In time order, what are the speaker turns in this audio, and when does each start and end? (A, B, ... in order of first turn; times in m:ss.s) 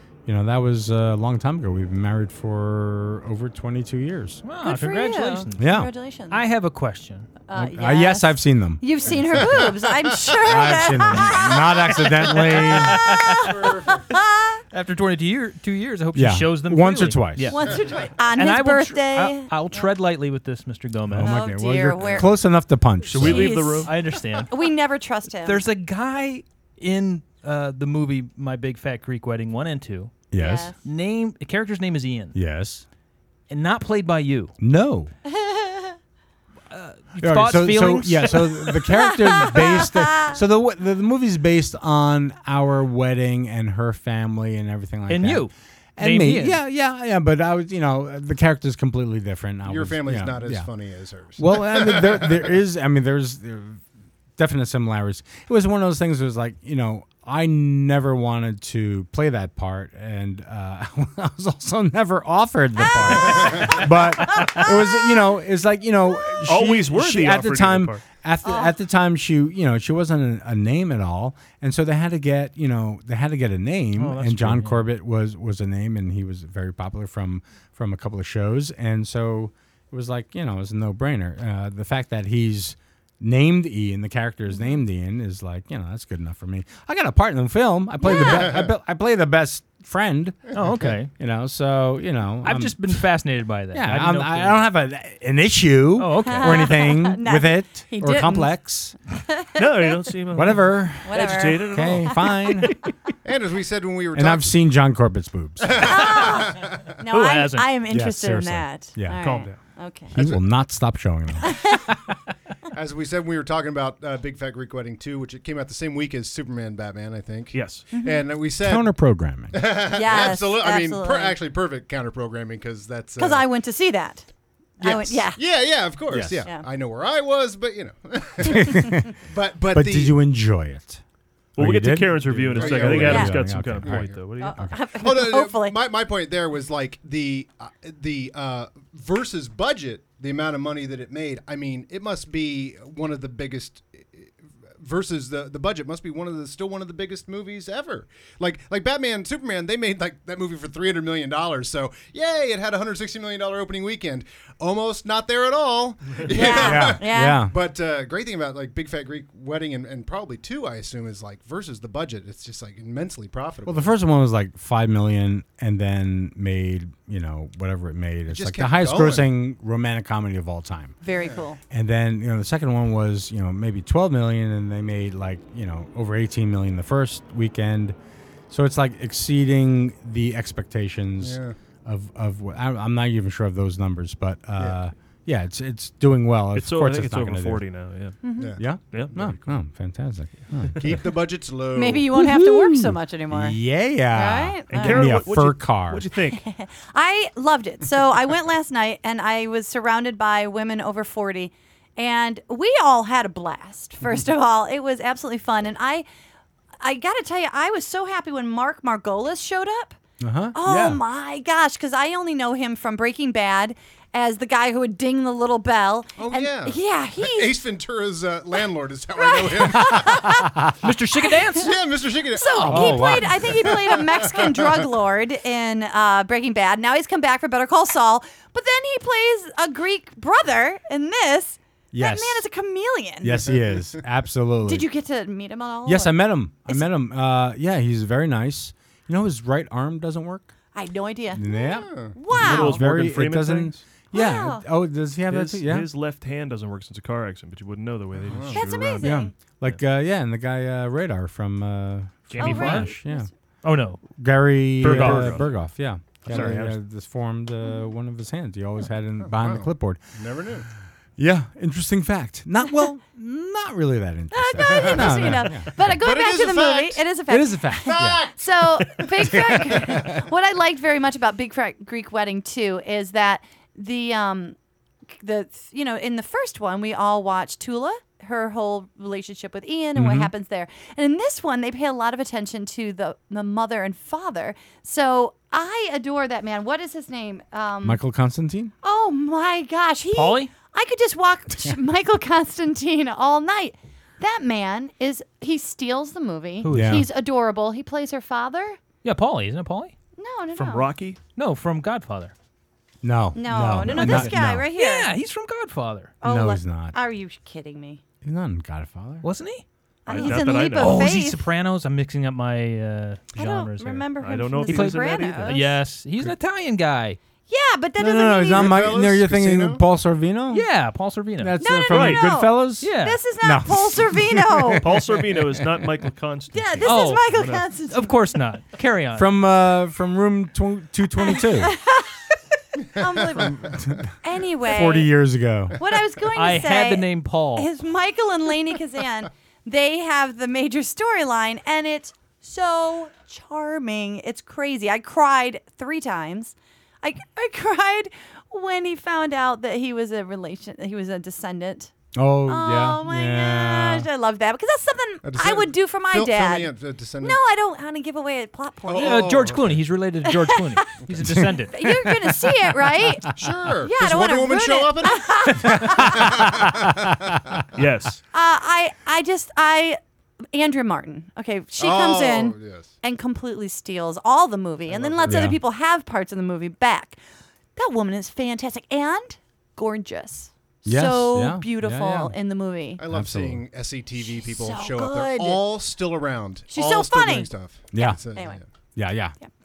0:00.2-0:04.4 A
0:04.4-0:05.7 B
0:04.6-0:06.4 C
0:05.6-0:05.9 A
0:06.3-0:07.3 B
0:07.5-0:14.6 C
0:07.5-0:09.6 A
0:09.3-0:09.8 D
0:10.4-0:13.0 A
0:12.7-0:13.4 B
0:13.5-0:14.0 D
0:14.7-0:17.6 B
0:16.1-0:17.7 A
0:17.5-0:19.9 C
0:18.3-0:21.3 B
0:21.1-0:23.6 A
0:21.2-0:22.5 C
0:23.1-0:23.9 E
0:23.1-0:25.6 C
0:23.2-0:24.5 B
0:25.4-0:32.4 B
0:30.3-0:30.7 A
0:30.4-0:30.7 C
0:32.3-0:32.8 A
0:33.5-0:34.5 B
0:34.6-0:35.1 A
0:35.3-0:36.0 C
0:36.7-0:38.7 B
0:37.2-0:50.7 A
0:38.9-0:40.4 C
0:45.1-0:46.6 B
0:49.6-0:52.4 D
0:51.4-0:53.8 A
0:54.4-1:30.5 A
1:02.8-1:05.1 C
1:06.5-1:08.0 E
1:08.4-1:08.8 C
1:14.0-1:14.9 B
1:24.5-1:24.8 C
1:28.0-1:28.6 C
1:28.1-1:28.6 D
1:30.5-1:31.1 B
1:31.1-1:33.0 A
1:32.4-1:34.7 B
1:33.7-1:38.9 A
1:36.0-1:36.7 B
1:36.2-1:38.5 C
1:39.3-1:40.0 C
1:39.6-1:42.2 E
1:40.3-1:42.7 A
1:41.0-1:42.3 C
1:43.2-1:44.6 D
1:44.1-1:45.9 A
1:45.6-1:46.8 D
1:45.8-1:50.2 C
1:47.1-1:47.7 B
1:47.9-1:49.4 A
1:49.2-1:49.6 E
1:50.1-1:51.5 A
1:50.1-1:50.4 D
1:51.4-1:51.9 C
1:52.7-1:58.9 D
1:57.5-1:57.9 E
1:57.9-1:58.3 C
1:58.6-1:59.6 A
1:59.5-2:03.4 D
1:59.9-2:01.4 C
2:03.2-2:04.3 C
2:04.8-2:05.4 C
2:04.8-2:10.2 D
2:06.1-2:06.5 A
2:08.5-2:09.1 A
2:09.7-2:11.0 A
2:11.6-2:14.6 E
2:11.6-2:14.8 A
2:12.5-2:14.2 D
2:13.0-2:13.4 C
2:14.4-2:15.8 C
2:15.0-2:43.9 D
2:36.3-2:37.4 C
2:36.4-2:37.5 A
2:43.6-2:51.0 A
2:48.3-2:49.3 D
2:51.0-2:51.6 C
2:51.2-2:51.4 D
2:51.7-2:57.9 A
2:58.5-3:07.6 A
3:01.2-3:01.6 D
3:06.5-3:08.2 E
3:08.2-3:08.6 C
3:08.6-3:11.0 A
3:08.9-3:09.2 E
3:10.8-3:12.1 D
3:11.7-3:15.2 C
3:12.1-3:16.1 A
3:14.7-3:16.4 E
3:16.3-3:26.0 C
3:26.8-3:30.0 C
3:30.2-3:31.0 A
3:30.5-3:37.5 C
3:36.2-3:40.4 D
3:39.2-3:40.5 C
3:40.8-3:41.7 B
3:41.2-3:41.7 C
3:41.6-3:44.9 D
3:42.4-3:53.5 C
3:42.5-3:43.1 B
3:42.6-3:43.4 A
3:51.9-3:52.4 A
3:53.2-3:54.9 A
3:53.4-3:54.0 D
3:54.6-3:56.9 C
3:55.8-4:00.5 A
4:00.7-4:02.8 C
4:01.3-4:05.9 A
4:01.8-4:02.2 D
4:02.3-4:03.8 E
4:04.1-4:04.6 C
4:05.3-4:09.1 E
4:08.2-4:08.7 D
4:08.5-4:09.4 C
4:09.0-4:13.3 A
4:12.3-4:13.0 B
4:12.3-4:13.3 C
4:13.6-4:14.0 B
4:14.2-4:20.0 A
4:14.8-4:15.4 B
4:14.8-4:15.5 E
4:16.2-4:16.8 E
4:16.3-4:16.6 D
4:19.2-4:20.7 D
4:21.2-4:26.0 A
4:24.3-4:34.6 C
4:24.6-4:27.0 D
4:27.3-4:28.3 A
4:27.9-4:30.0 D
4:29.3-4:30.1 A
4:35.1-4:48.0 C
4:39.9-4:40.3 A
4:47.8-4:48.7 A
4:48.8-4:58.8 C
4:50.1-4:50.5 B
4:56.6-4:57.0 B
4:56.7-4:57.0 A
4:59.0-4:59.9 B
5:00.2-5:00.9 C
5:00.5-5:01.2 E
5:01.4-5:02.3 B
5:03.0-5:04.7 A
5:03.3-5:05.1 C
5:03.9-5:06.1 B
5:06.2-5:08.0 C
5:06.2-5:06.9 A
5:08.2-5:09.2 A
5:09.2-5:09.6 B
5:10.0-5:11.4 C
5:10.1-5:11.1 E
5:10.7-5:14.1 B
5:13.3-5:15.7 C
5:14.2-5:15.6 E
5:14.7-5:17.2 B
5:17.5-5:18.9 C
5:18.0-5:20.7 A
5:18.5-5:19.8 D
5:20.5-5:21.6 B
5:21.4-5:25.8 A
5:21.6-5:24.9 C
5:21.9-5:22.2 E
5:22.8-5:23.2 B
5:24.8-5:27.6 E
5:26.5-5:28.1 C
5:26.8-5:29.3 B
5:29.1-5:31.7 A
5:31.2-5:32.2 C
5:32.8-5:35.1 C
5:33.4-5:35.8 A
5:35.8-5:51.9 C
5:36.3-5:37.7 B
5:52.1-5:54.1 A
5:52.4-5:59.4 C
5:55.2-5:57.4 D
5:58.9-5:59.8 D
5:59.0-6:01.8 B
6:00.2-6:01.0 C
6:01.7-6:03.3 C
6:03.4-6:07.4 D
6:03.8-6:06.4 C
6:05.6-6:07.3 A
6:07.7-6:08.2 E
6:08.3-6:10.0 C
6:10.5-6:17.2 C
6:11.8-6:12.9 D
6:14.9-6:15.5 D
6:15.3-6:15.6 A
6:17.8-6:23.0 C
6:20.8-6:22.3 A
6:23.0-6:28.6 D
6:23.1-6:23.6 A
6:24.2-6:25.6 C
6:26.7-6:27.5 C
6:27.9-6:28.2 A
6:28.3-6:28.6 C
6:29.0-6:29.4 A